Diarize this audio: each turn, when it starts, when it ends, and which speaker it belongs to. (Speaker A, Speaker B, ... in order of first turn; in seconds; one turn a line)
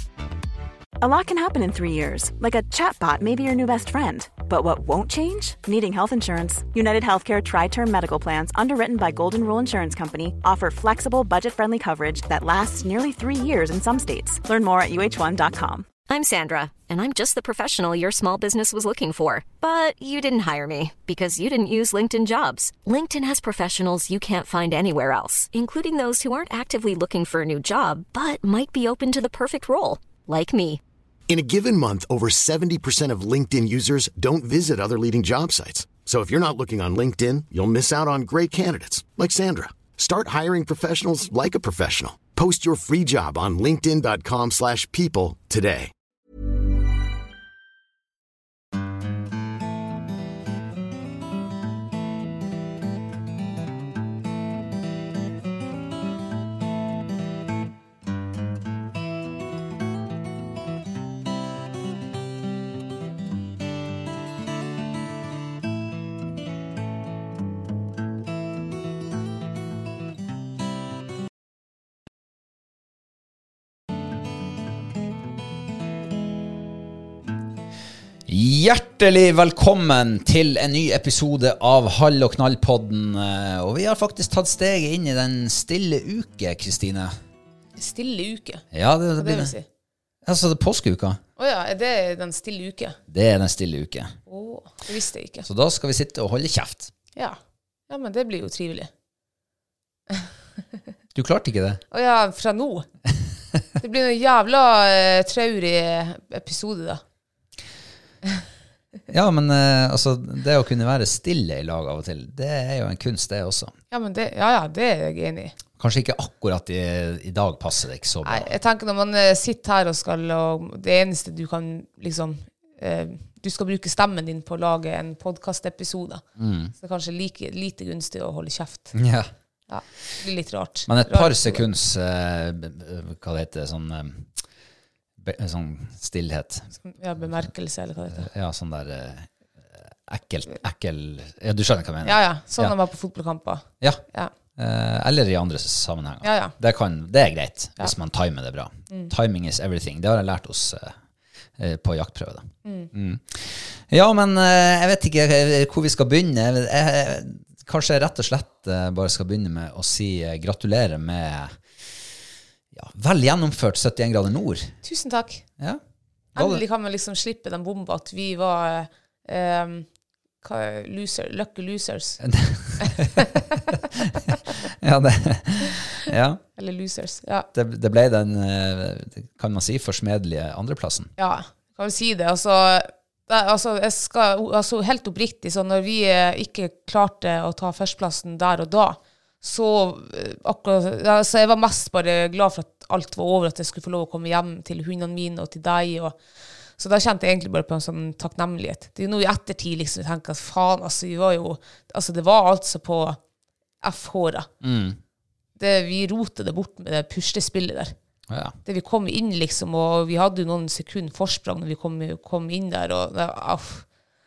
Speaker A: 1.0-15.9
Speaker B: 16.1-30.8
Speaker C: 31.3-45.9
Speaker D: 78.3-87.1
Speaker E: 87.8-88.6
Speaker D: 88.7-89.5
Speaker E: 89.2-89.7
Speaker D: 90.2-91.2
Speaker E: 91.4-93.0
Speaker D: 93.1-94.1
Speaker E: 94.3-95.5
Speaker D: 95.4-96.9
Speaker E: 97.9-98.9
Speaker D: 101.1-101.8
Speaker E: 101.9-102.9
Speaker E: 103.8-107.0
Speaker D: 109.1-113.7
Speaker E: 113.9-115.6
Speaker D: 115.8-118.5
Speaker E: 118.2-126.2
Speaker D: 126.4-126.7
Speaker E: 126.8-128.9
Speaker D: 128.9-129.3
Speaker E: 129.7-131.6
Speaker D: 130.8-134.3
Speaker D: 135.2-136.7
Speaker E: 136.8-138.3
Speaker D: 138.1-142.7
Speaker E: 142.0-144.3
Speaker D: 144.6-150.9
Speaker E: 146.2-146.5
Speaker D: 151.6-161.6
Speaker E: 152.6-152.9
Speaker D: 162.7-164.7
Speaker E: 164.8-165.4
Speaker D: 166.3-166.6
Speaker E: 166.3-169.9
Speaker E: 170.4-172.2
Speaker D: 172.2-176.4
Speaker E: 172.8-173.6
Speaker E: 176.6-177.5
Speaker D: 177.5-181.1
Speaker E: 181.2-196.2
Speaker E: 196.8-203.2
Speaker E: 203.8-204.5
Speaker D: 204.6-205.0
Speaker E: 205.6-207.9
Speaker D: 208.3-208.6
Speaker E: 208.6-213.8